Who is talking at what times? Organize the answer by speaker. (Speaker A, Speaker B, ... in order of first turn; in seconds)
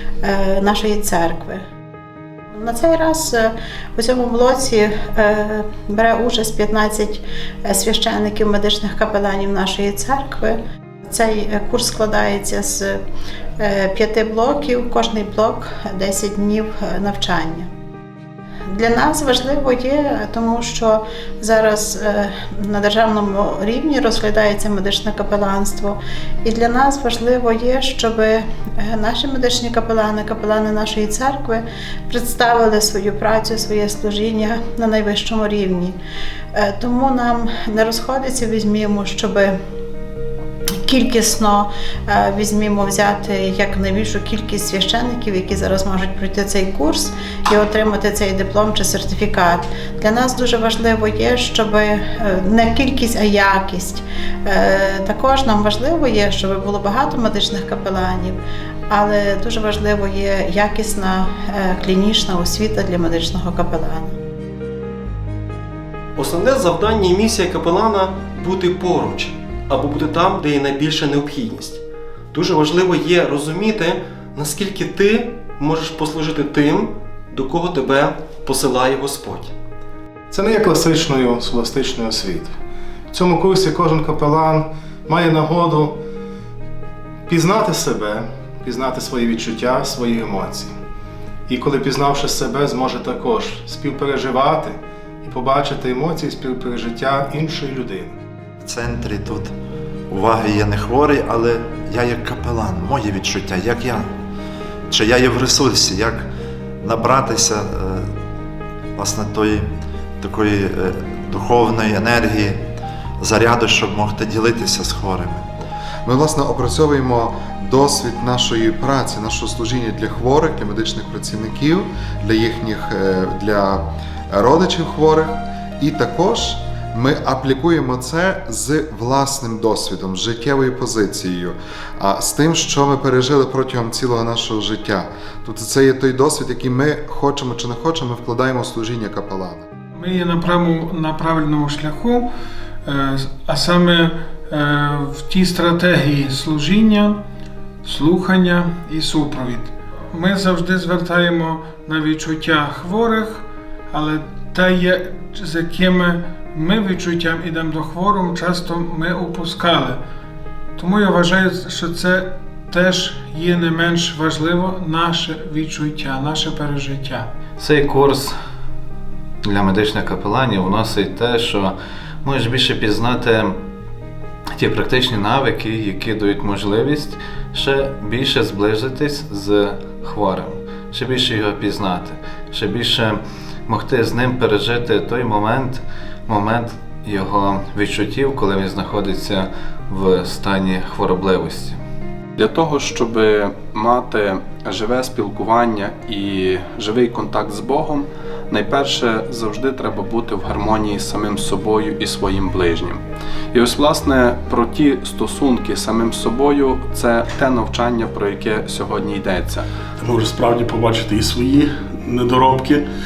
Speaker A: 0.2-1.6, 2.5-13.0, 13.6-17.7, 18.7-36.0, 36.5-39.6, 40.8-58.4, 58.9-64.2
Speaker B: 66.2-71.8, 72.3-79.5
Speaker C: 80.3-82.5, 83.1-86.0, 87.3-90.8, 91.5-98.2
Speaker D: 98.6-99.5, 100.1-104.1, 104.9-106.3, 106.8-108.1, 109.0-109.7, 110.2-112.6, 113.2-115.5
Speaker E: 116.0-139.6
Speaker F: 139.9-142.3, 142.9-147.2, 147.8-160.0, 160.8-167.3
Speaker G: 167.6-168.3, 169.5-173.6, 174.6-191.8
Speaker H: 192.4-203.0, 203.5-209.7
Speaker I: 210.0-212.9